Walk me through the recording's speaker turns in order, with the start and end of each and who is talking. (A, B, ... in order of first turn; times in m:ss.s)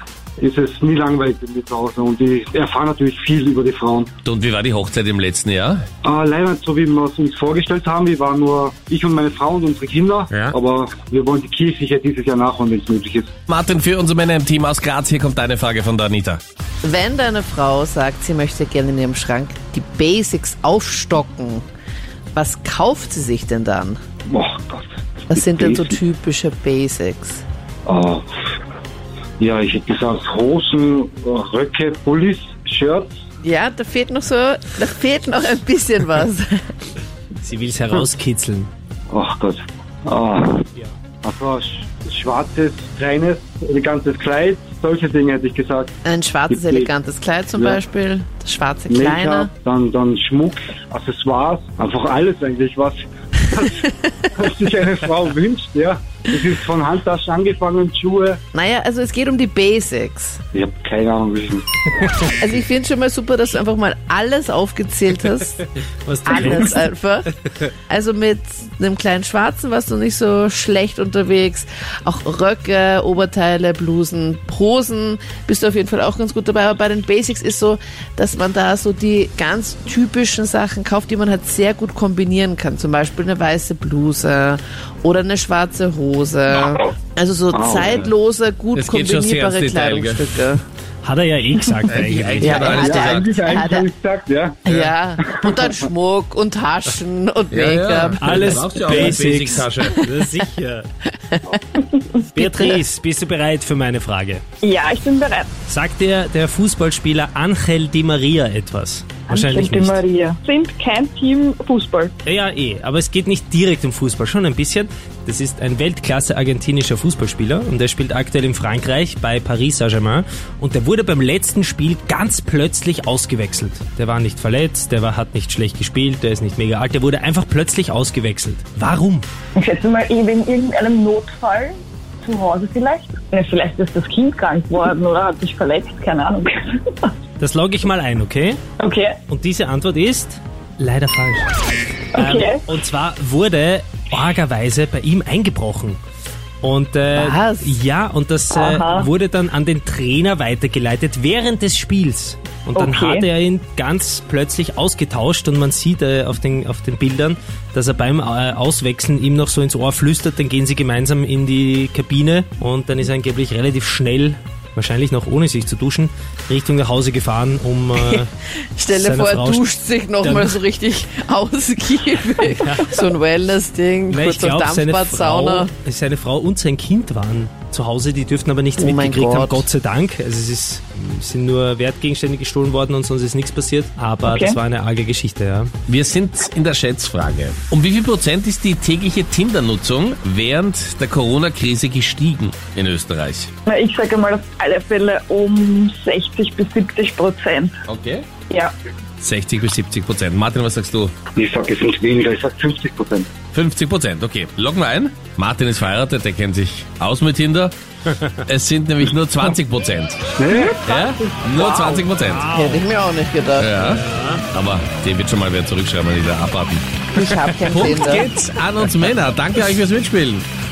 0:00.4-0:04.1 A
0:04.2-0:05.8 B
0:06.0-0:13.3 A
0:13.5-0:16.4 B
0:16.8-0:21.6 C
0:22.4-0:24.0 C
0:24.3-0:26.0 A
0:25.3-0:27.4 C
0:27.9-0:28.3 A
0:29.4-0:33.1 A
0:33.4-0:36.6 C
0:37.4-0:38.7 D
0:39.1-0:40.6 A
0:41.2-0:45.9 A
0:46.0-0:49.5 C
0:46.5-0:46.9 A
0:48.9-0:58.4 A
0:58.5-1:00.4 C
1:00.5-1:01.7 A
1:02.3-1:05.6 C
1:06.0-1:06.8 D
1:06.3-1:07.3 C
1:07.9-1:30.6 C
1:27.5-1:28.1 A
1:28.8-1:30.4 B
1:31.0-1:32.7 D
1:31.9-1:33.4 B
1:32.4-1:33.9 C
1:32.7-1:34.6 A
1:34.7-1:39.0 C
1:37.5-1:40.0 B
1:38.2-1:40.9 D
1:41.3-1:41.6 C
1:42.3-1:44.4 D
1:42.4-1:42.8 C
1:44.6-1:45.5 E
1:45.7-1:50.0 D
1:49.3-1:52.1 E
1:52.2-2:09.3 D
2:09.6-2:17.1 E
2:17.4-2:18.6 D
2:18.8-2:19.2 E
2:19.3-2:21.5 D
2:22.2-2:22.6 E
2:22.2-2:26.0 D
2:26.6-2:48.3 D
2:27.2-2:27.8 C
2:28.5-2:29.1 E
2:32.8-2:33.2 E
2:48.8-2:55.7 C
2:48.9-2:49.6 D
2:50.2-2:50.6 D
2:52.5-2:53.0 D
2:54.1-3:05.7 D
2:58.8-2:59.7 C
3:04.2-3:04.6 E
3:05.9-3:13.5 B
3:13.7-3:17.7 E
3:17.9-3:18.3 B
3:19.2-3:21.1 B
3:21.4-3:23.3 A
3:23.5-3:27.7 B
3:28.4-3:30.2 B
3:30.4-3:30.9 A
3:30.8-3:32.5 B
3:32.2-3:32.8 D
3:32.5-3:33.7 C
3:33.6-3:36.8 B
3:33.8-3:34.4 D
3:37.1-3:38.3 C
3:37.7-3:40.4 B